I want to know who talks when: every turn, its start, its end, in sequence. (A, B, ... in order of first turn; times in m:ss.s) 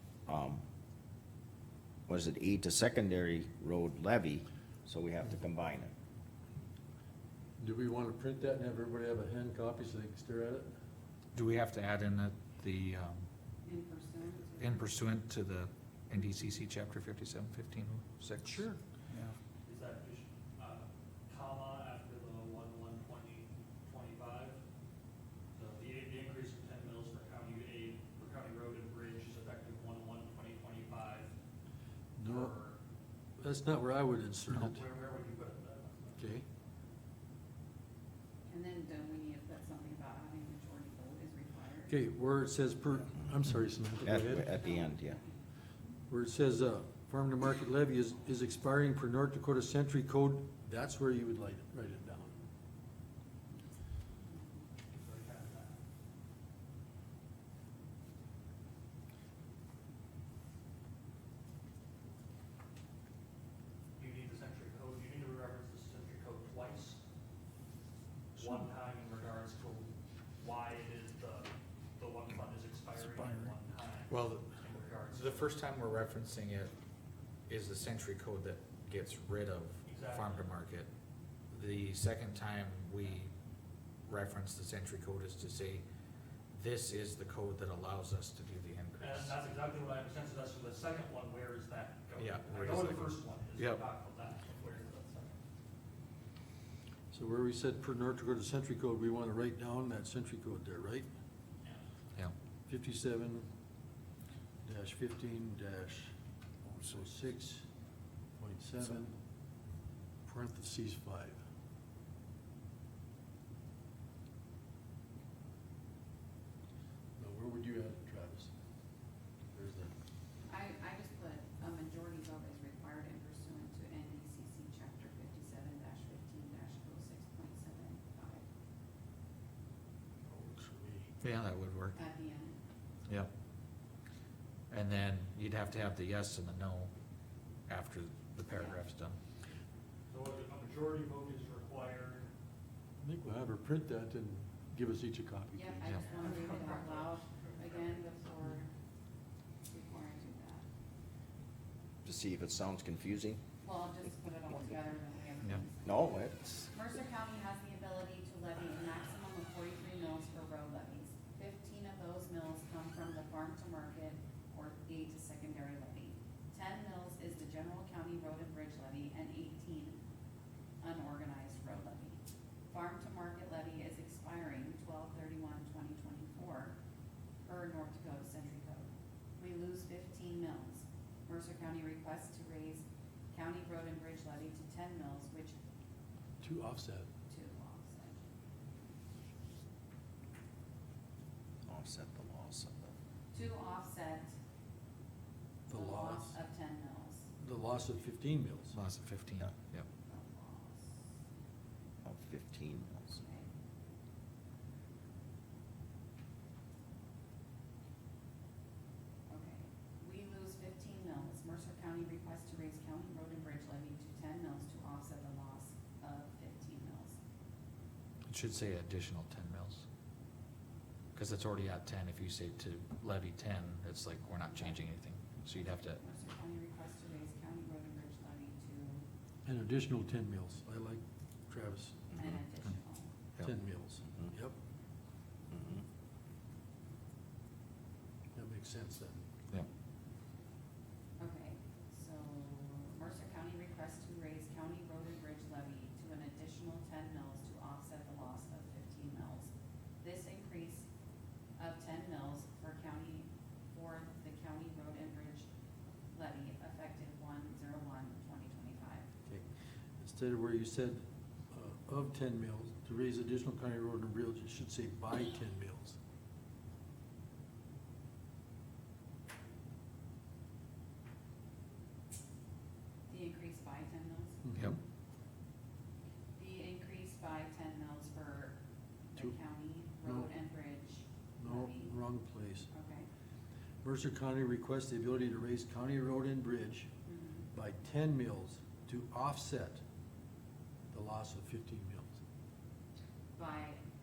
0:00.3-0:00.6 A
0:02.1-0:05.9 A
0:07.6-0:10.7 B
0:11.4-0:13.3 C
0:13.6-0:14.8 D
0:14.6-0:19.4 C
0:18.4-0:18.8 B
0:19.6-0:24.6 E
0:25.6-0:31.3 E
0:32.2-0:32.6 B
0:32.2-0:32.8 E
0:33.4-0:34.8 B
0:34.6-0:36.2 E
0:36.2-0:36.4 B
0:38.5-0:42.0 D
0:41.9-0:44.5 B
0:44.0-0:45.2 A
0:44.5-0:45.3 D
0:46.1-0:52.3 B
0:54.9-0:55.8 E
1:04.0-1:07.0 E
1:08.3-1:15.5 E
1:14.1-1:14.5 C
1:15.1-1:16.7 C
1:17.5-1:20.9 C
1:19.9-1:20.4 E
1:21.5-1:23.3 C
1:24.0-1:25.8 C
1:26.5-1:29.4 C
1:29.0-1:35.4 E
1:32.2-1:33.8 C
1:37.1-1:41.1 B
1:42.7-1:43.5 B
1:44.6-1:46.1 B
1:46.9-1:47.7 B
1:48.4-1:49.2 B
1:50.2-1:51.4 B
1:57.2-1:58.5 B
1:59.5-1:59.9 B
2:00.5-2:08.4 D
2:10.2-2:11.1 B
2:11.2-2:12.0 C
2:12.0-2:12.6 D
2:14.7-2:16.9 C
2:17.7-2:19.2 C
2:18.5-2:18.8 D
2:20.1-2:22.3 E
2:23.0-2:26.0 B
2:25.5-2:28.7 D
2:26.1-2:27.8 E
2:29.7-2:30.7 D
2:32.0-2:33.4 A
2:33.6-2:50.0 D
2:35.8-2:36.7 A
2:50.8-2:56.8 D
2:57.4-3:05.6 D
3:06.4-3:07.1 B
3:07.3-3:08.2 D
3:11.7-3:12.9 A
3:13.3-3:14.4 D
3:15.7-3:16.4 B
3:15.7-3:17.3 D
3:17.4-3:18.8 B
3:18.7-3:19.9 C
3:20.0-3:21.0 D
3:22.0-3:23.2 A
3:23.2-3:23.5 D
3:29.3-3:37.2 D
3:38.3-3:39.9 C
3:41.2-3:46.0 C
3:44.4-3:44.9 D
3:45.6-3:49.1 D
3:49.4-3:52.1 B
3:52.2-3:53.2 D
3:53.4-3:54.6 B
3:58.3-3:59.2 B
4:01.2-4:10.9 D
4:11.6-4:15.5 D
4:16.1-4:19.1 D
4:19.3-4:26.0 B
4:33.1-4:34.5 D
4:34.4-4:34.8 B
4:36.4-4:38.6 D
4:39.1-4:42.0 D
4:40.0-4:40.3 B
4:41.4-4:42.7 B
4:42.7-4:43.1 D
4:43.8-4:46.9 B
4:47.1-4:47.5 D
4:47.5-4:49.8 B
4:50.9-4:52.2 B
4:53.4-4:53.8 D